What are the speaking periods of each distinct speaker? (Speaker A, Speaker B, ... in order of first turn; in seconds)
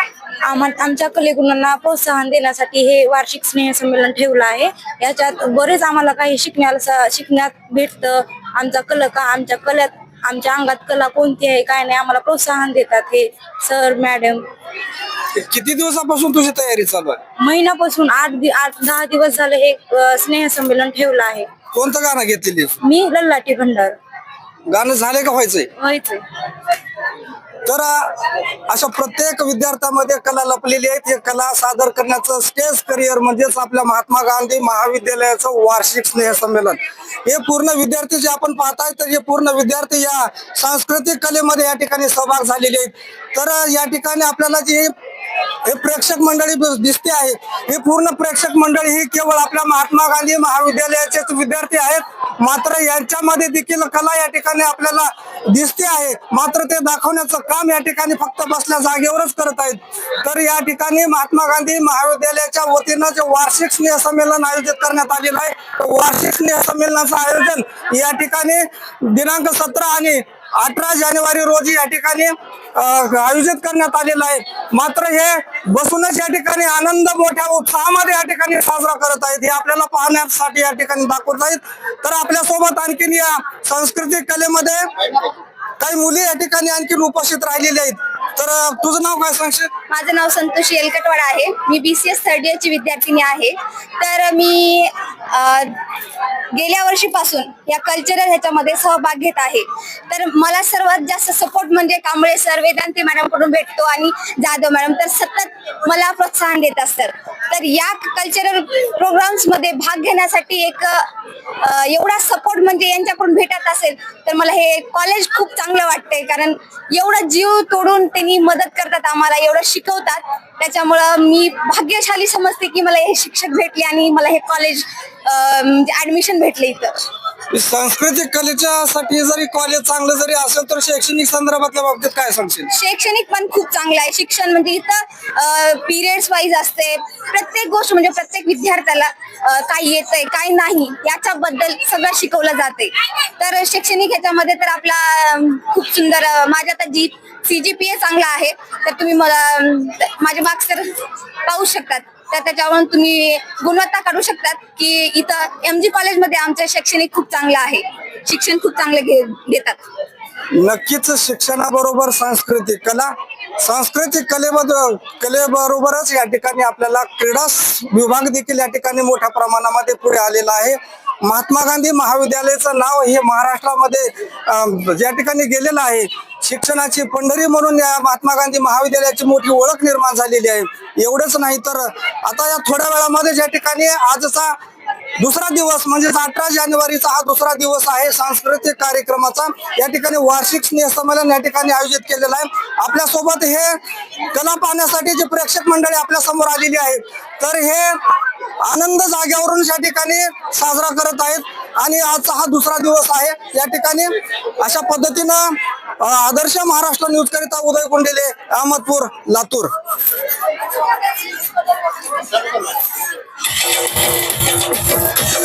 Speaker A: 0.5-14.4, 17.4-21.5, 22.8-24.0, 25.8-26.2
Speaker B: 15.3-17.2, 21.7-22.8, 24.7-25.7, 27.7-28.2, 28.7-44.9, 45.6-84.9, 85.8-89.7, 127.5-132.7, 160.6-184.6, 185.2-193.8, 194.3-198.0, 198.6-209.7
Speaker C: 89.9-95.7, 96.5-111.1, 111.6-127.1, 132.7-150.9, 151.5-159.8